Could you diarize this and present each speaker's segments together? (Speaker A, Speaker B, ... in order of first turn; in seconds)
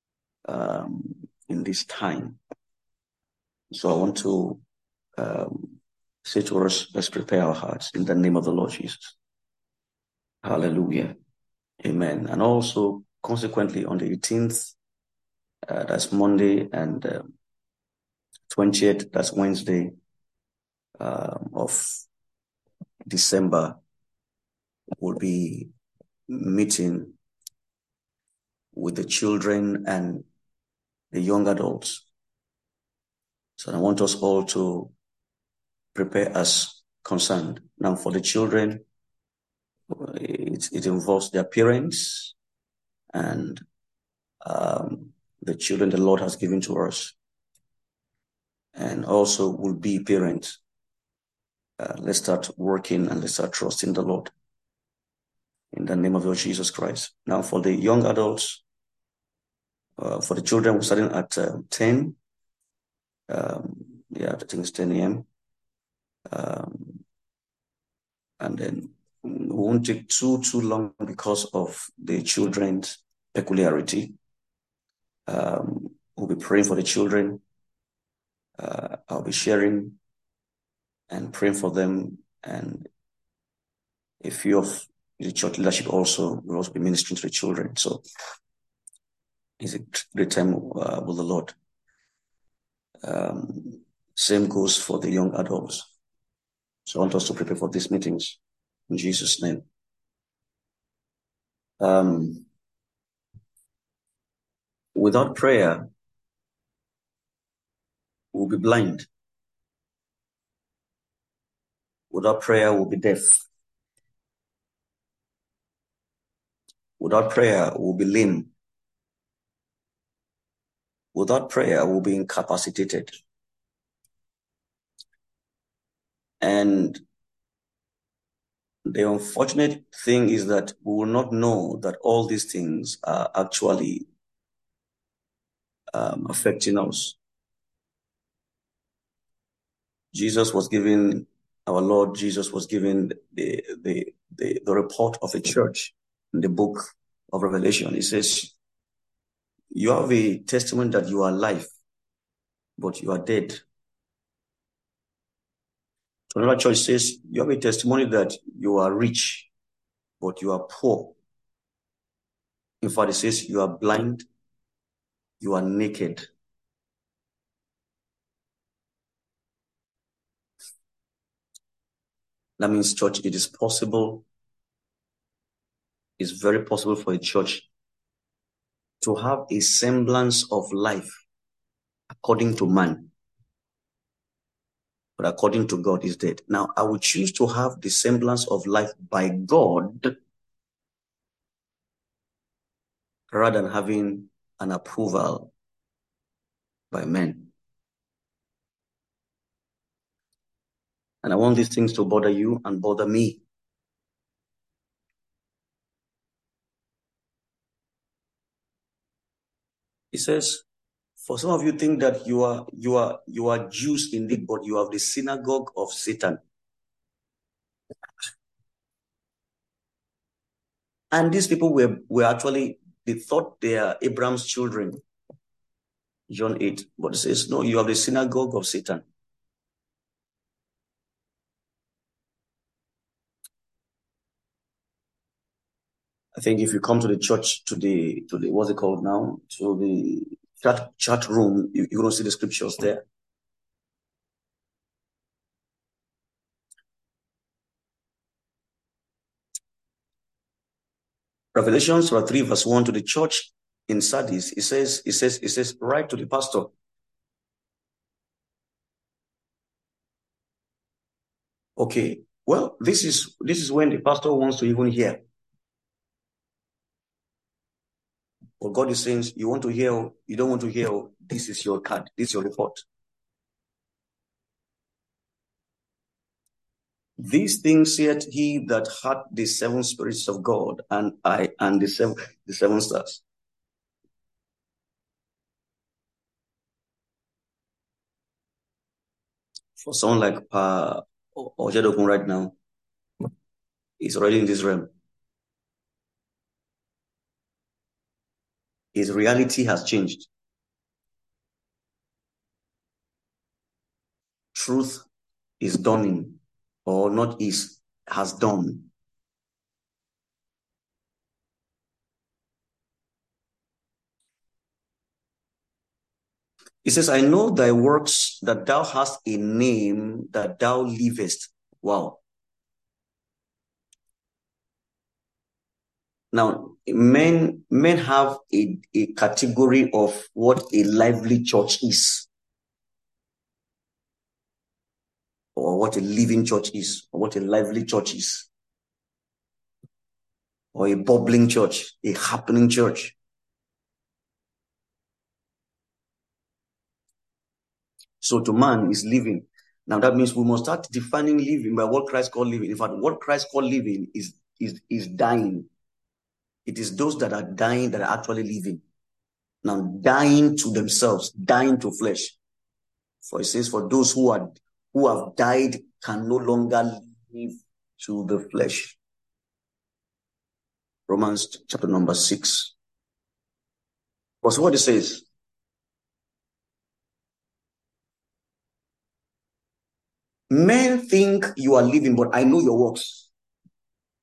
Speaker A: 0.5-2.4, 3.7-4.6, 5.2-9.2, 10.4-11.1, 11.8-14.7, 15.7-17.3, 18.5-19.9, 21.0-22.0, 23.1-23.8, 25.0-25.7, 26.3-27.1, 28.7-30.3, 31.1-32.1, 33.6-34.9, 36.0-38.8, 39.9-42.4, 43.1-43.6, 44.4-47.2, 48.8-50.6, 51.8-54.3, 55.7-58.6, 60.0-62.2, 63.3-65.3, 66.3-67.0, 68.4-74.2, 75.3-77.4, 78.6-80.0, 81.1-82.9, 84.2-88.0, 89.6-91.5, 93.0-95.9, 96.9-98.4, 98.9-99.6, 101.8-102.5, 105.0-105.9, 108.3-109.1, 112.1-113.4, 117.0-118.5, 121.1-123.1, 126.4-127.0, 128.9-134.1, 135.9-137.2, 140.1-148.5, 149.7-151.7, 152.8-153.6, 156.3-159.5, 160.2-161.2, 162.8-164.3, 165.4-166.3, 172.6-174.3, 176.2-177.7, 179.0-181.2, 182.2-183.1, 185.2-190.1, 193.3-195.5, 196.9-197.5, 201.2-203.4, 210.1-210.6, 211.2-216.4, 221.1-225.0, 226.3-229.0, 236.4-243.1, 251.6-256.7, 261.8-265.2, 268.6-272.8, 277.2-283.2, 289.8-292.6, 294.0-294.9, 298.9-300.3, 304.6-305.1, 305.6-308.9, 316.8-322.2, 326.3-332.3, 335.6-338.5, 340.7-343.1, 348.2-355.7, 356.7-358.8, 359.6-362.4, 363.2-369.0, 371.1-372.7, 374.4-375.2, 380.5-383.3